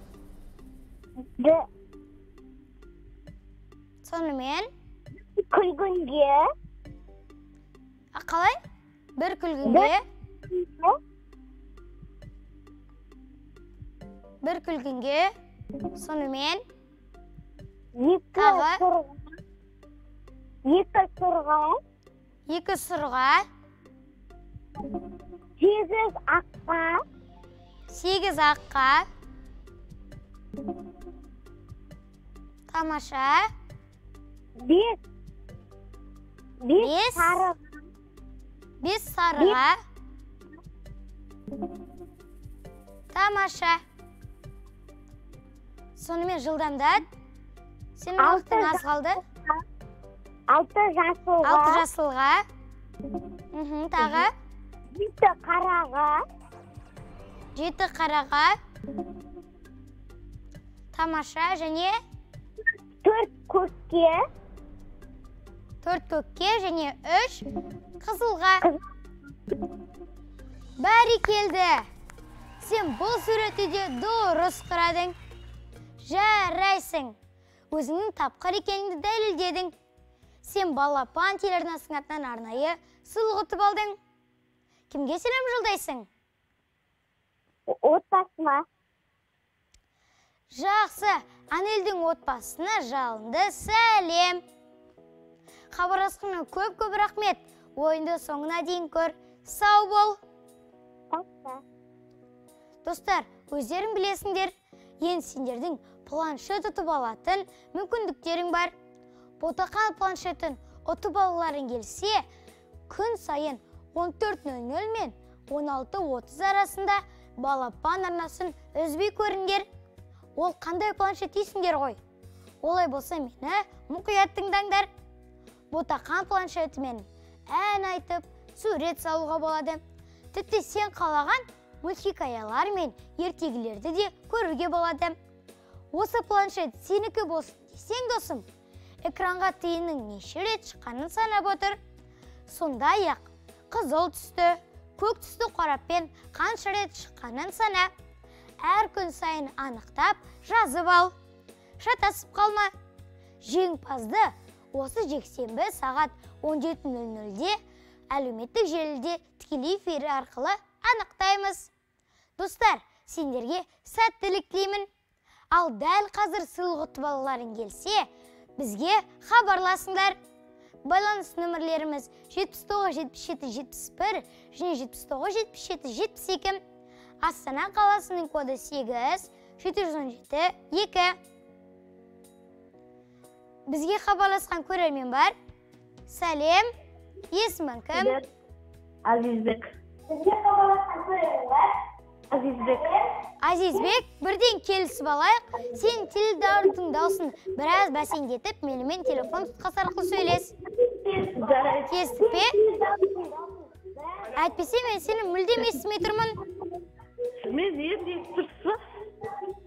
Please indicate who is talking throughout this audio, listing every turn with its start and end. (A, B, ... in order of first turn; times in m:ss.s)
0:01.4-0:01.6 A
0:04.0-0:04.7 B
0:05.4-0:06.4 A
0:08.1-0:08.6 B
0:09.2-0:10.0 B
0:09.6-0:09.9 A
0:10.5-0:11.0 A
0:14.4-0:15.3 B
0:15.9-0:16.6 B
0:18.0-0:19.3 A
0:18.4-0:18.8 B
0:20.7-0:21.8 A
0:22.5-0:23.4 B
0:25.6-0:27.0 A
0:27.9-0:29.0 B
0:32.7-0:33.5 B
0:34.6-0:35.0 A
0:36.6-0:37.6 A
0:36.8-0:37.4 B
0:38.8-0:39.8 B
0:43.1-0:43.8 B
0:46.0-0:47.0 B
0:48.0-0:49.2 B
0:48.2-0:49.6 A
0:50.5-0:51.8 A
0:51.4-0:52.4 B
0:53.5-0:54.3 B
0:54.9-0:56.2 A
0:57.6-0:58.6 B
1:00.9-1:02.0 B
1:03.0-1:04.2 A
1:05.8-1:07.4 B
1:08.0-1:08.7 B
1:10.8-1:11.8 B
1:12.6-1:15.1 B
1:16.0-1:17.2 B
1:17.7-1:19.7 B
1:20.4-1:24.0 B
1:24.9-1:26.1 B
1:27.7-1:28.6 A
1:30.5-1:34.4 B
1:35.7-1:40.2 B
1:41.1-1:41.6 A
1:42.8-1:48.7 B
1:49.4-1:52.2 B
1:52.9-1:59.7 B
2:00.4-2:02.0 B
2:02.6-2:04.9 B
2:05.7-2:09.8 B
2:10.3-2:15.2 B
2:15.9-2:18.4 B
2:19.0-2:21.8 B
2:22.5-2:27.9 B
2:28.6-2:31.1 B
2:31.8-2:32.7 B
2:33.4-2:37.6 B
2:38.1-2:41.7 B
2:42.4-2:44.9 B
2:45.5-2:48.1 B
2:48.6-2:50.2 B
2:50.8-2:56.6 B
2:57.2-3:01.2 B
3:03.7-3:05.3 B
3:06.1-3:06.7 B
3:07.3-3:08.2 B
3:07.9-3:08.2 C
3:09.0-3:09.7 C
3:10.2-3:11.4 A
3:12.3-3:12.9 C
3:13.4-3:20.5 B
3:21.1-3:22.4 C
3:21.9-3:22.5 B
3:22.6-3:23.5 A
3:24.4-3:26.4 B
3:27.4-3:28.8 C